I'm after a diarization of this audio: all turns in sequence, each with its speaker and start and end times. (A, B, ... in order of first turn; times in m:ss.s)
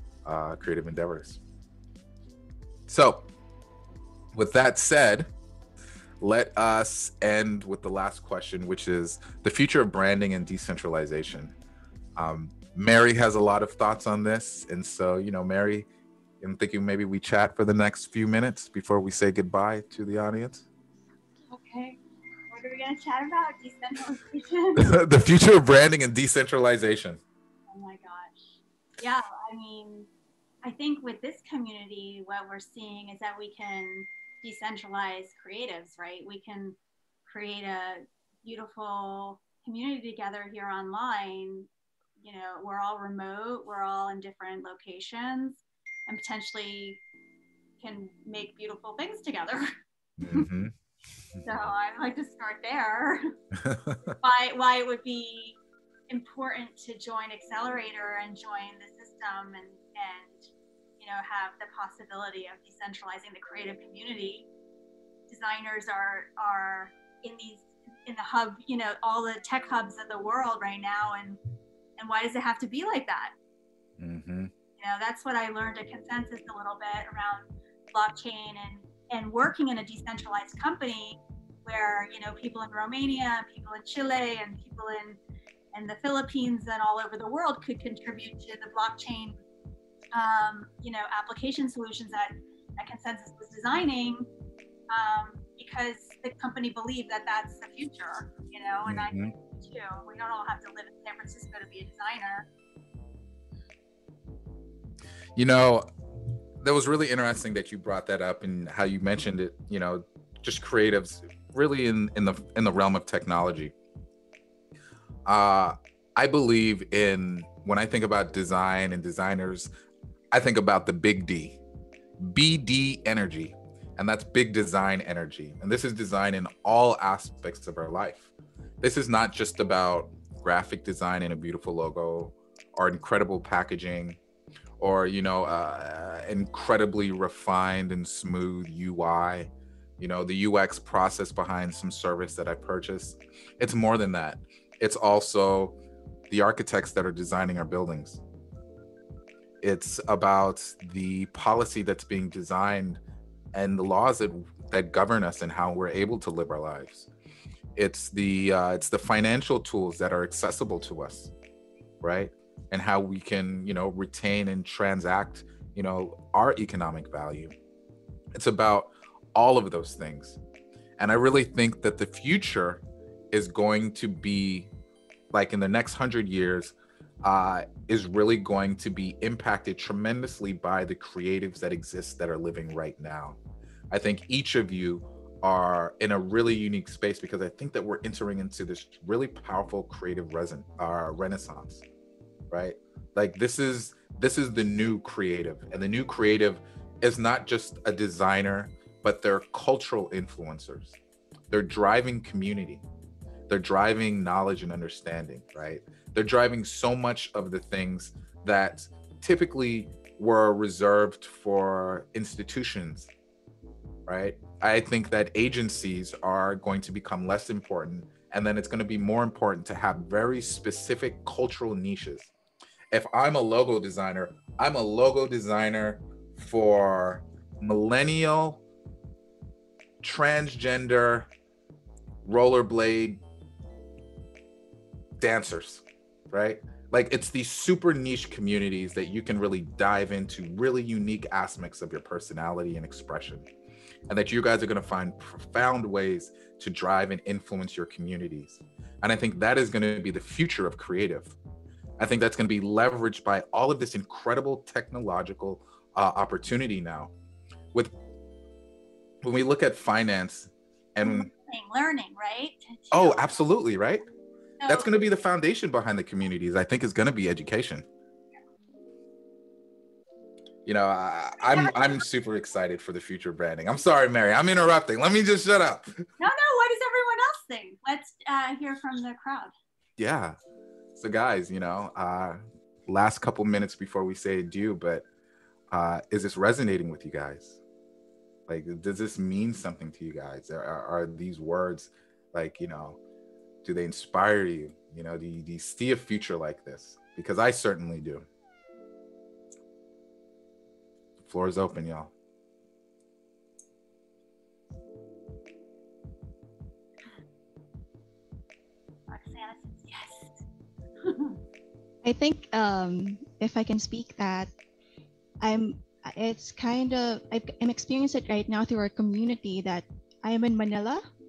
0:00.2-0:01.4 A
0:02.9-0:03.3 A
0:04.3-0:05.3 A
0:06.2-0:11.5 A
0:12.2-0:15.9 A
0:16.4-0:20.6 A
0:21.5-0:22.0 B
0:22.5-0:25.0 B
0:24.8-0:27.2 A
0:27.7-0:30.1 B
0:30.6-0:47.0 B
0:47.8-0:49.7 B
0:50.2-0:50.7 A
0:51.3-0:51.7 A
0:51.4-0:53.3 B
0:53.5-0:54.2 A
0:54.2-0:55.6 B
0:56.1-1:00.5 B
1:01.0-1:04.5 B
1:05.3-1:11.4 B
1:12.0-1:13.3 B
1:14.0-1:14.5 A
1:14.8-1:25.2 B
1:25.7-1:29.4 B
1:30.1-1:34.3 B
1:34.9-1:42.5 B
1:38.8-1:39.3 A
1:45.4-1:45.9 A
1:46.6-1:53.7 A
1:55.3-1:59.7 A
2:00.3-2:01.6 A
2:02.2-2:14.2 A
2:14.8-2:25.8 A
2:26.3-2:28.2 A
2:29.6-2:33.0 A
2:33.5-2:37.1 A
2:37.8-2:41.3 A
2:42.0-2:47.5 A
2:48.4-2:50.4 A
2:51.0-2:54.7 A
2:55.3-3:03.4 A
3:03.9-3:11.8 A
3:12.5-3:21.0 A
3:21.5-3:22.8 A
3:23.5-3:33.1 A
3:34.1-3:42.3 A
3:42.9-3:48.6 A
3:50.0-3:51.3 A
3:52.2-3:53.2 A
3:55.2-4:03.5 A
4:04.1-4:11.4 A
4:12.0-4:17.1 A
4:19.2-4:21.3 A
4:21.0-4:23.6 B
4:22.9-4:24.0 A
4:24.6-4:24.9 B
4:24.6-4:27.8 A
4:30.7-4:36.0 A
4:31.4-4:32.0 B
4:36.2-4:39.5 B
4:40.0-4:40.4 A
4:41.0-4:45.0 A
4:45.7-4:47.6 A
4:48.5-4:53.0 A
4:53.6-4:58.3 A
5:01.2-5:02.1 A
5:09.1-5:10.4 B
5:11.0-5:11.4 B
5:12.0-5:14.5 C
5:15.4-5:21.0 C